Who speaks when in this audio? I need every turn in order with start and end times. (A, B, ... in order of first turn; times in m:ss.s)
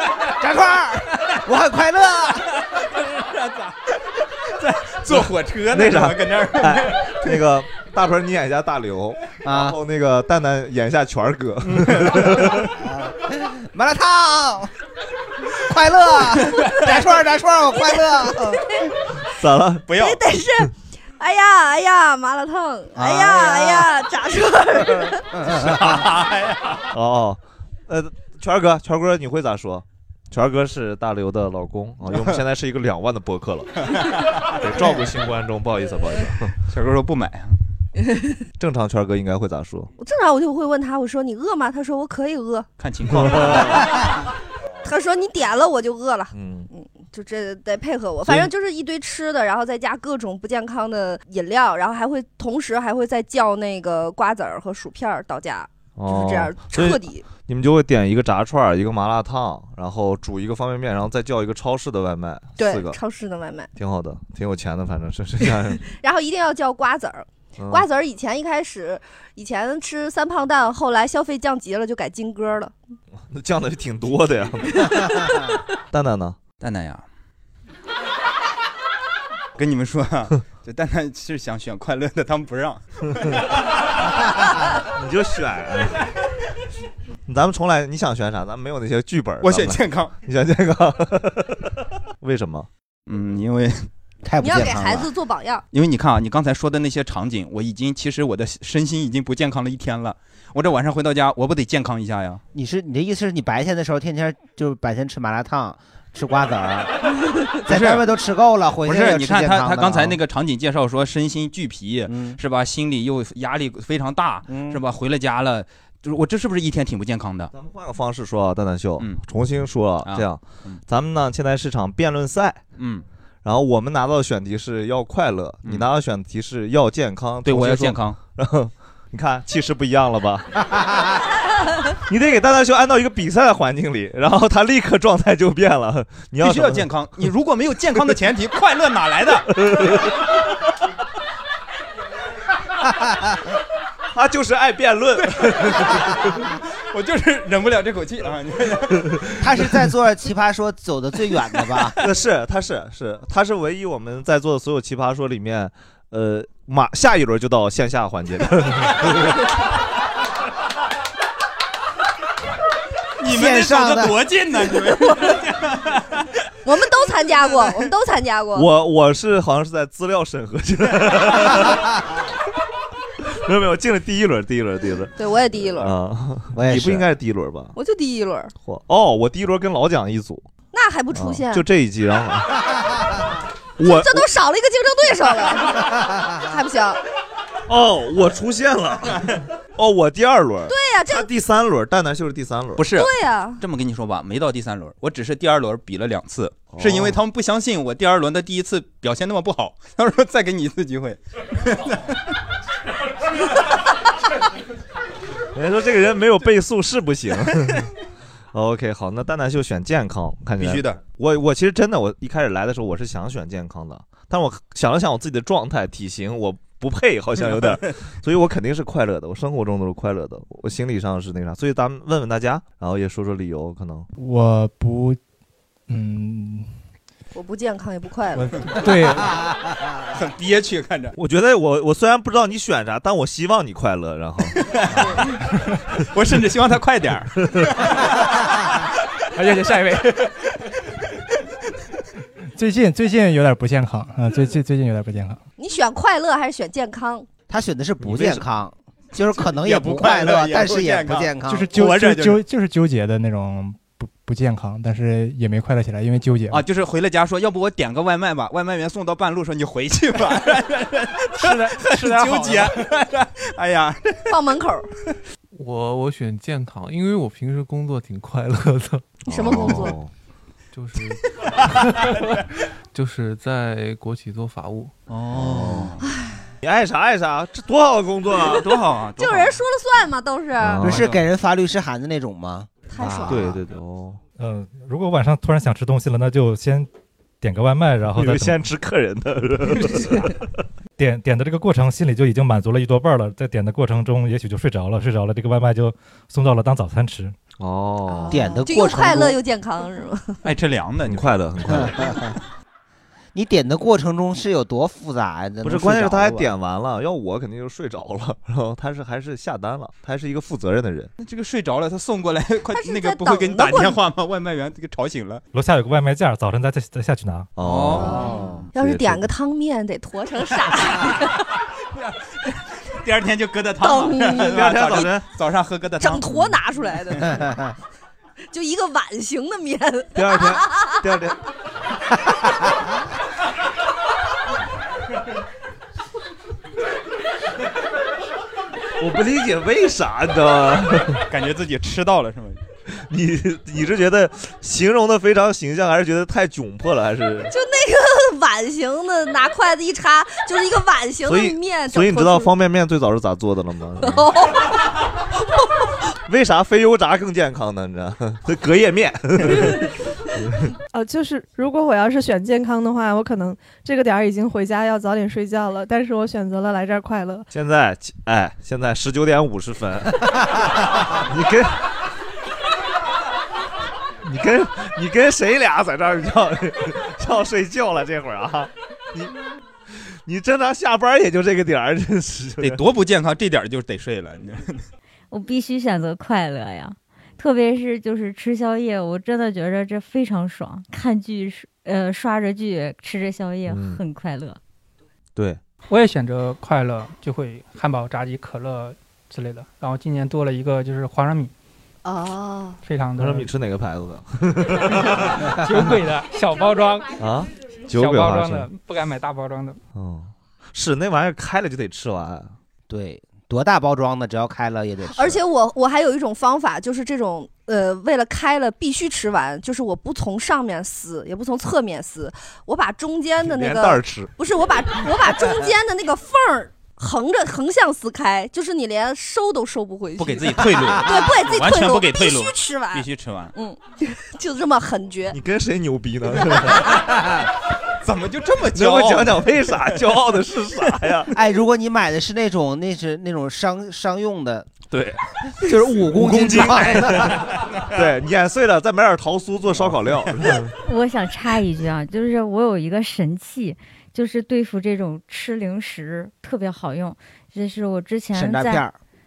0:00.3-0:02.5 A
0:02.7-0:07.4 B
0:05.7-0:12.7 C
0:09.4-0:09.8 A
0:11.7-0:12.4 B
0:12.7-0:14.7 A
0:15.6-0:18.6 A
0:16.5-0:16.9 B
0:17.8-0:18.9 D
0:19.4-0:19.8 C
0:19.9-0:20.2 B
0:19.9-0:25.2 D
0:22.9-0:24.0 A
0:24.8-0:26.0 A
0:25.5-0:26.8 B
0:26.9-0:33.8 C
0:32.0-0:32.4 B
0:34.5-0:36.5 C
0:36.7-0:37.6 B
0:38.6-0:39.9 C
0:40.0-0:42.7 D
0:42.8-0:44.0 B
0:43.1-0:43.9 C
0:44.8-0:57.3 D
0:46.3-0:46.7 C
0:48.2-0:48.5 C
0:56.0-1:03.0 C
1:02.6-1:03.7 D
1:03.8-1:05.8 C
1:05.8-1:12.7 D
1:07.6-1:07.8 C
1:13.3-1:14.9 C
1:15.9-1:16.4 C
1:16.6-1:17.0 B
1:19.6-1:23.3 B
1:24.8-1:26.0 C
1:27.3-1:32.7 C
1:29.4-1:30.1 B
1:33.1-1:33.9 B
1:34.2-1:35.1 A
1:34.4-1:35.6 D
1:35.7-1:42.4 B
1:42.5-1:47.0 A
1:47.6-1:50.2 A
1:47.7-1:48.1 B
1:48.8-1:57.5 B
1:52.1-1:52.4 A
1:54.5-1:54.8 A
1:57.5-2:02.6 C
2:00.0-2:00.8 B
2:02.8-2:03.0 B
2:03.4-2:10.5 C
2:07.4-2:08.2 B
2:12.1-2:16.9 C
2:16.4-2:19.5 B
2:19.5-2:20.1 C
2:24.1-2:26.1 C
2:25.2-2:29.6 B
2:29.4-2:32.0 A
2:32.0-2:39.0 C
2:43.2-2:46.3 B
2:43.2-2:44.2 A
2:46.6-2:48.7 D
2:48.5-2:51.9 C
2:53.4-2:55.1 C
2:55.2-2:55.9 D
2:55.7-2:57.7 C
2:56.5-2:57.0 A
2:57.7-2:58.5 D
2:58.6-3:00.5 C
3:00.7-3:01.6 D
3:01.1-3:02.6 C
3:03.8-3:04.2 C
3:03.8-3:07.0 D
3:07.7-3:12.9 C
3:10.6-3:11.3 D
3:12.8-3:22.1 B
3:12.9-3:13.6 D
3:16.7-3:17.2 C
3:25.5-3:27.9 C
3:28.5-3:44.1 C
3:30.6-3:31.0 B
3:44.2-3:45.2 E
3:45.9-3:46.7 E
3:47.3-3:48.9 D
3:48.4-3:49.4 E
3:50.1-3:51.1 B
3:51.1-3:55.2 C
3:54.6-3:55.1 B
3:56.1-3:58.8 B
3:59.4-4:00.3 B
4:02.6-4:05.4 E
4:05.6-4:07.3 D
4:07.5-4:11.7 A
4:08.0-4:08.4 C
4:09.3-4:12.4 B
4:11.5-4:16.6 E
4:16.5-4:24.2 B
4:21.4-4:22.7 F
4:24.3-4:24.9 D
4:25.5-4:29.1 G
4:29.3-4:30.1 C
4:29.3-4:30.0 D
4:30.7-4:32.4 G
4:32.9-4:34.9 G
4:35.1-4:36.0 B
4:35.3-4:36.0 C
4:36.0-4:36.4 D
4:36.6-4:38.7 C
4:38.3-4:39.6 B
4:39.2-4:40.9 D
4:40.6-4:41.1 C
4:40.8-4:43.5 A
4:40.8-4:41.2 B
4:42.9-4:43.6 D
4:43.0-4:44.2 C
4:44.4-4:46.9 H
4:47.4-4:48.6 H
4:48.1-4:50.4 C
4:51.0-4:57.4 H
4:57.5-4:58.6 C
4:58.1-5:00.4 D
4:58.3-4:59.4 A
5:00.4-5:01.3 B
5:01.0-5:02.3 C
5:01.7-5:02.3 A
5:03.3-5:06.5 A
5:05.6-5:11.1 C
5:11.2-5:15.4 B
5:12.7-5:14.0 D
5:15.5-5:17.5 H
5:17.6-5:19.3 C
5:17.6-5:18.3 B
5:17.9-5:18.7 A
5:18.2-5:21.4 D
5:23.0-5:26.5 B
5:23.8-5:24.7 D
5:24.4-5:25.3 C
5:26.0-5:27.4 D
5:27.3-5:27.6 A
5:28.5-5:31.0 D
5:30.1-5:31.4 C
5:39.0-5:41.2 C
5:41.3-5:42.6 B
5:42.9-5:47.5 C
5:47.5-5:52.5 D
5:51.2-5:54.3 C
5:54.0-5:54.7 D
5:56.2-6:00.7 C
6:00.9-6:07.5 I
6:07.5-6:10.4 C
6:11.1-6:11.8 C
6:14.2-6:19.3 C
6:19.9-6:22.8 C
6:22.6-6:24.9 B
6:25.3-6:34.6 J
6:33.6-6:34.0 C
6:35.9-6:41.5 F
6:42.0-6:42.8 D
6:42.8-6:43.5 F
6:43.1-6:46.0 C
6:45.6-6:47.2 F
6:47.1-6:48.7 C
6:47.9-6:49.8 F
6:49.9-6:52.5 C
6:52.9-6:55.4 A
6:55.1-7:15.4 D
7:03.4-7:04.3 C
7:10.2-7:13.5 B
7:15.3-7:16.9 C
7:18.0-7:20.0 B
7:18.7-7:21.3 C
7:21.3-7:24.7 A
7:24.9-7:30.7 C
7:25.6-7:27.4 A
7:30.8-7:38.8 J
7:38.3-7:39.0 A